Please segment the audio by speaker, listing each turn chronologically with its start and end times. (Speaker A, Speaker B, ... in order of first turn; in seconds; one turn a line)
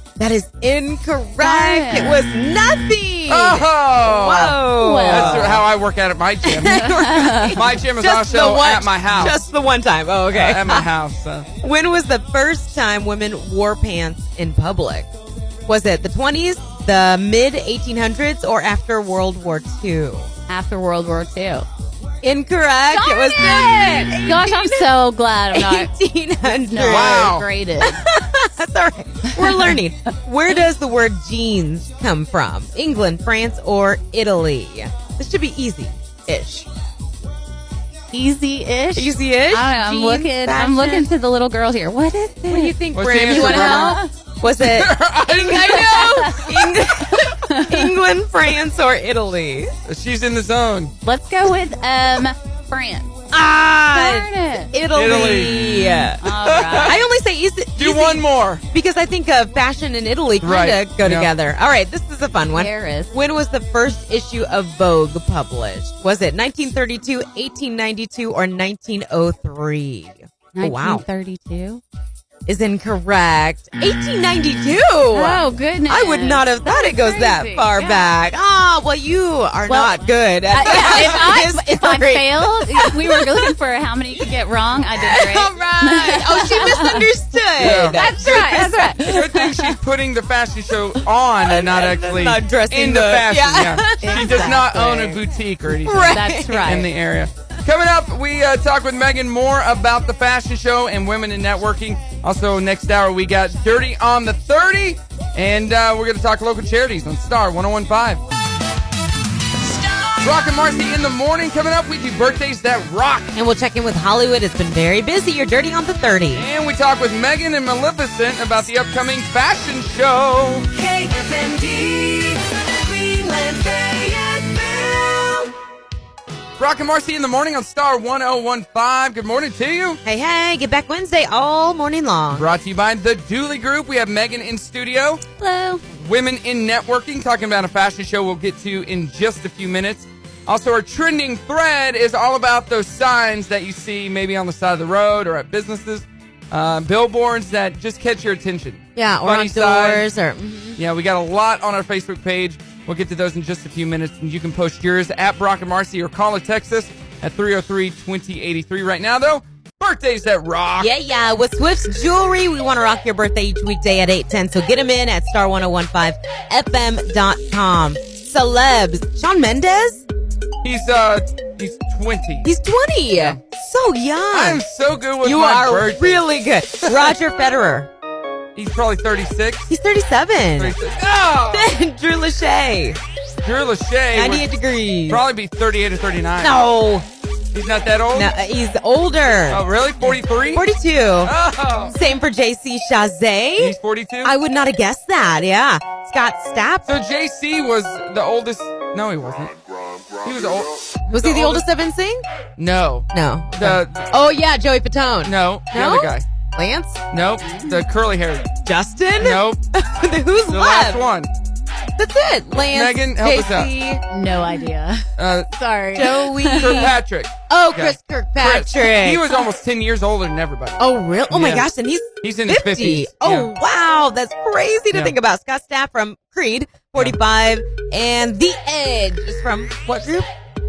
Speaker A: 0.2-5.7
Speaker B: 1.4-2.2
Speaker C: 3.3-9.4
Speaker B: 4.8-5.6
Speaker A: 6.4-10.9
Speaker B: 6.7-7.6
Speaker C: 10.3-11.5
Speaker A: 11.6-15.1
Speaker A: 15.7-20.3
Speaker B: 20.5-21.6
Speaker A: 22.2-24.9
Speaker B: 22.9-25.9
Speaker A: 25.5-36.7
Speaker B: 26.4-28.1
Speaker C: 26.8-27.5
Speaker B: 29.4-29.8
Speaker B: 38.1-44.1
Speaker A: 38.9-41.1
Speaker A: 42.4-49.7
Speaker C: 42.9-44.0
Speaker C: 44.6-46.4
Speaker B: 45.5-47.9
Speaker C: 49.9-50.9
Speaker B: 51.0-53.1
Speaker A: 53.3-71.0
Speaker B: 53.9-54.7
Speaker C: 54.9-57.0
Speaker B: 56.2-57.1
Speaker C: 57.8-58.6
Speaker C: 60.4-61.3
Speaker B: 62.5-63.1
Speaker B: 70.5-71.8
Speaker A: 72.5-83.5
Speaker B: 75.1-78.1
Speaker B: 79.7-89.8
Speaker A: 84.9-89.2
Speaker C: 87.6-88.0
Speaker C: 89.0-108.2
Speaker A: 91.4-94.8
Speaker B: 94.0-95.2
Speaker A: 95.8-96.9
Speaker B: 96.1-96.9
Speaker C: 110.2-113.3
Speaker A: 113.3-116.5
Speaker C: 116.3-120.8
Speaker A: 120.8-125.5
Speaker C: 126.6-130.0
Speaker A: 130.0-132.5
Speaker C: 132.3-135.2
Speaker B: 135.4-135.8
Speaker C: 135.9-150.1
Speaker A: 148.9-150.8
Speaker C: 150.8-160.9
Speaker A: 160.8-170.0
Speaker C: 170.6-172.5
Speaker A: 172.4-174.6
Speaker C: 173.2-173.4
Speaker C: 174.3-176.3
Speaker A: 175.2-177.9
Speaker C: 176.8-177.1
Speaker C: 178.5-179.7
Speaker A: 179.7-180.8
Speaker C: 180.6-181.7
Speaker A: 181.5-183.0
Speaker C: 183.4-184.5
Speaker A: 184.1-185.2
Speaker C: 185.1-186.6
Speaker A: 186.4-187.0
Speaker C: 187.5-188.3
Speaker A: 188.1-191.3
Speaker C: 189.5-190.7
Speaker C: 191.2-191.9
Speaker A: 191.9-196.9
Speaker C: 193.6-194.3
Speaker C: 196.8-199.6
Speaker C: 200.2-201.7
Speaker A: 201.1-202.2
Speaker C: 202.6-204.1
Speaker A: 203.1-207.0
Speaker C: 205.2-206.2
Speaker C: 207.1-208.5
Speaker B: 207.4-207.8
Speaker A: 208.6-211.0
Speaker C: 209.2-209.6
Speaker C: 210.5-211.3
Speaker A: 212.0-214.0
Speaker C: 212.6-213.7
Speaker B: 214.1-216.9
Speaker C: 215.2-215.5
Speaker A: 215.9-216.9
Speaker C: 216.5-221.7
Speaker A: 217.5-219.3
Speaker A: 220.8-230.3
Speaker C: 222.2-223.5